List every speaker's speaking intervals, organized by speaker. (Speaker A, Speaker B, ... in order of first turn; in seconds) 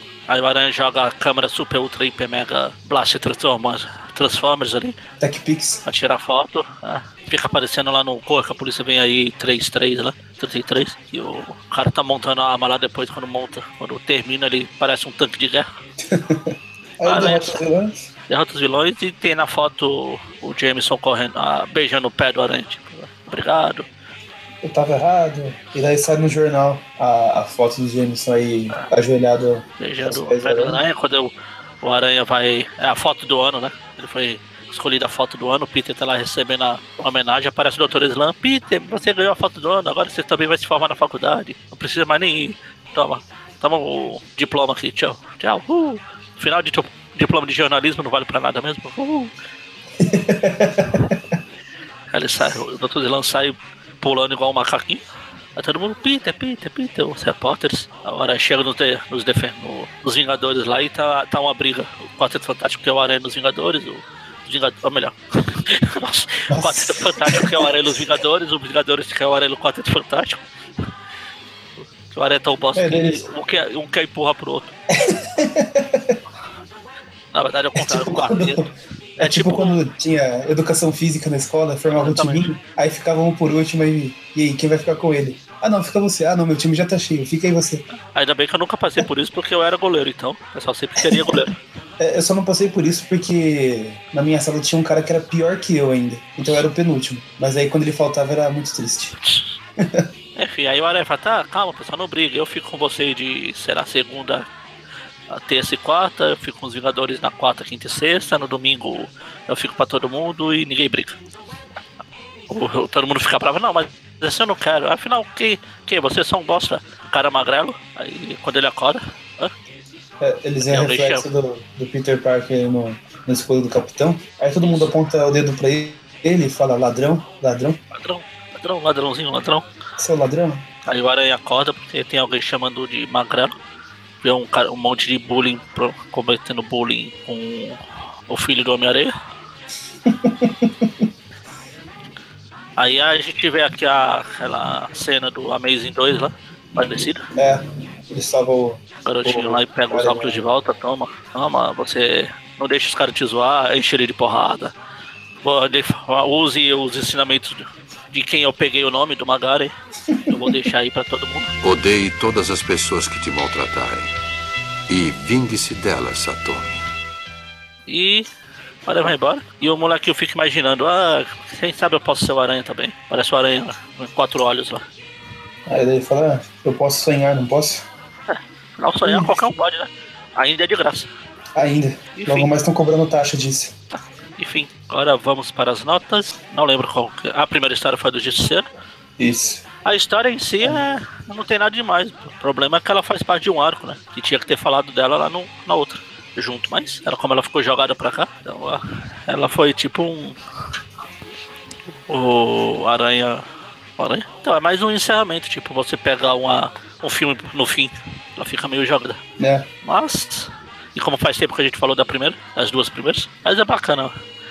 Speaker A: 0.3-5.0, 5.8-15.7, 17.0-17.6, 18.3-23.9, 29.8-31.3, 31.8-49.3, 52.1-55.0, 55.6-70.4, 71.8-74.7, 77.3-79.8, 81.9-82.5, 88.1-91.6, 100.4-104.5, 105.3-111.2, 112.5-119.5, 120.7-121.2, 124.6-124.9, 127.9-129.7, 130.9-133.6, 134.2-139.1, 142.8-147.2, 149.0-154.7, 155.4-159.7, 160.3-161.5, 167.9-168.3, 168.9-174.8, 178.3-181.1, 182.2-182.5, 183.9-188.7, 189.8-200.4, 202.1-203.4, 204.0-209.2, 209.8-214.1
Speaker B: 5.2-5.8, 16.0-18.0, 24.6-30.8, 50.0-51.2, 66.5-67.7, 72.8-73.2, 75.0-76.2, 77.8-87.8, 92.0-99.2, 99.8-100.1, 120.2-127.8, 130.0-130.7, 140.1-141.1, 147.3-150.4, 160.1-160.5, 175.7-177.9, 179.0-179.3, 181.6-183.7, 189.2-189.6, 209.4-209.7
Speaker C: 161.6-164.1, 164.9-166.8